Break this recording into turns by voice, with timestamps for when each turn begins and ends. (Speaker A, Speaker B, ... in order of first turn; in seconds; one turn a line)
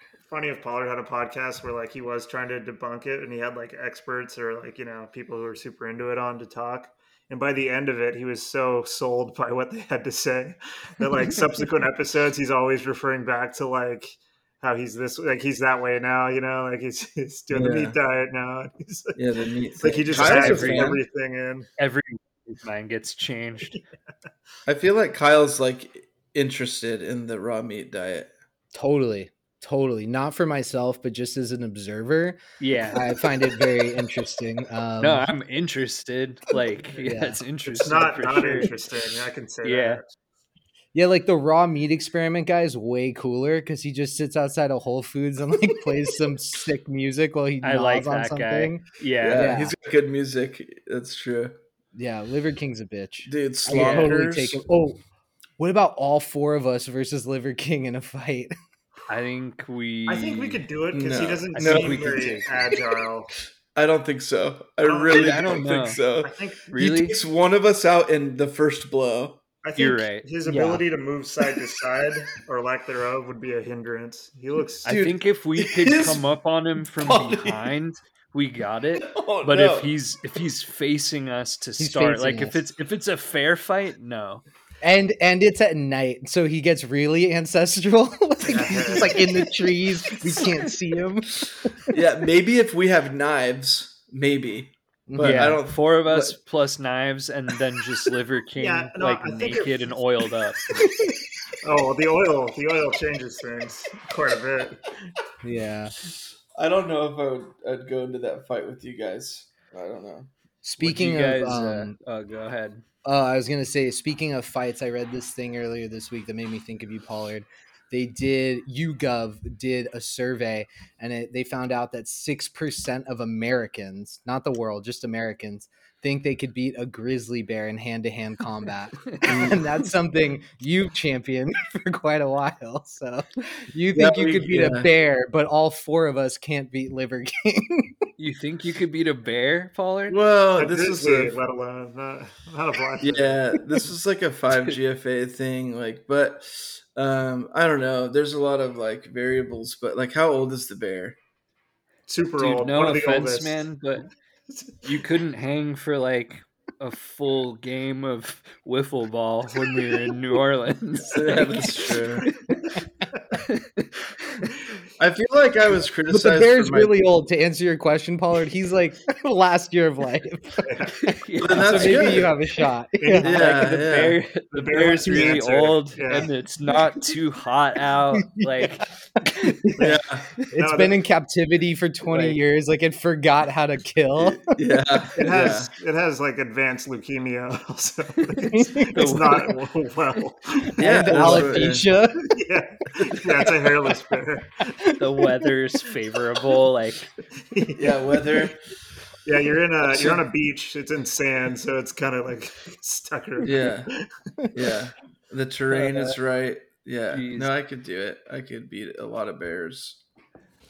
Speaker A: 0.3-19.2
Speaker B: 17.5-18.0
Speaker B: 19.1-21.0
Speaker A: 19.8-21.7
Speaker C: 20.1-21.0
Speaker C: 21.8-23.8
Speaker B: 24.7-28.3
Speaker D: 28.7-32.4
Speaker C: 32.6-33.3
Speaker D: 32.9-35.3
Speaker C: 35.0-38.8
Speaker D: 37.0-37.4
Speaker A: 37.7-40.1
Speaker C: 39.6-40.0
Speaker D: 40.9-48.8
Speaker C: 47.6-49.6
Speaker B: 49.2-51.6
Speaker D: 49.4-49.7
Speaker D: 52.0-55.0
Speaker B: 53.3-54.6
Speaker C: 53.7-54.0
Speaker D: 55.6-58.5
Speaker C: 59.1-60.6
Speaker A: 60.1-63.3
Speaker B: 60.9-62.4
Speaker C: 61.5-62.8
Speaker B: 63.7-69.4
Speaker A: 64.8-65.5
Speaker C: 65.1-66.0
Speaker A: 66.2-66.7
Speaker C: 66.7-67.2
Speaker A: 69.6-74.9
Speaker C: 69.8-70.3
Speaker D: 70.5-70.8
Speaker C: 74.8-84.4
Speaker B: 74.9-76.3
Speaker B: 77.0-77.7
Speaker B: 79.0-79.9
Speaker D: 81.8-82.6
Speaker D: 84.8-91.4
Speaker A: 88.4-89.2
Speaker B: 91.9-96.4
Speaker D: 95.1-95.5
Speaker C: 95.2-100.7
Speaker A: 98.6-99.9
Speaker A: 101.6-104.8
Speaker D: 105.4-105.9
Speaker B: 106.5-110.3
Speaker D: 110.6-111.9
Speaker C: 110.8-112.8
Speaker D: 113.0-138.0
Speaker B: 129.3-129.6
Speaker B: 133.9-134.9
Speaker C: 138.2-140.2
Speaker B: 140.1-141.4
Speaker A: 140.6-143.4
Speaker B: 143.0-151.2
Speaker A: 152.1-153.7
Speaker C: 152.4-154.1
Speaker C: 154.8-162.5
Speaker B: 161.1-162.3
Speaker C: 163.3-164.5
Speaker B: 165.0-167.0
Speaker D: 166.1-170.7
Speaker A: 170.7-171.0
Speaker C: 171.0-172.2
Speaker B: 171.4-172.3
Speaker D: 171.6-173.3
Speaker A: 173.0-173.7
Speaker B: 173.2-174.2
Speaker C: 173.3-178.9
Speaker A: 174.5-176.3
Speaker D: 179.3-179.7
Speaker B: 179.8-180.3
Speaker D: 180.5-184.5
Speaker A: 180.6-181.0
Speaker C: 182.1-182.4
Speaker B: 184.2-185.7
Speaker A: 185.2-190.8
Speaker D: 188.5-189.4
Speaker C: 188.9-189.5
Speaker D: 190.8-192.3
Speaker B: 190.8-191.9
Speaker A: 192.3-194.6
Speaker C: 195.0-197.1
Speaker A: 197.5-198.0
Speaker B: 197.8-198.6
Speaker A: 199.3-204.1
Speaker B: 203.4-203.9
Speaker B: 204.5-210.0
Speaker C: 205.7-206.2
Speaker C: 207.1-207.5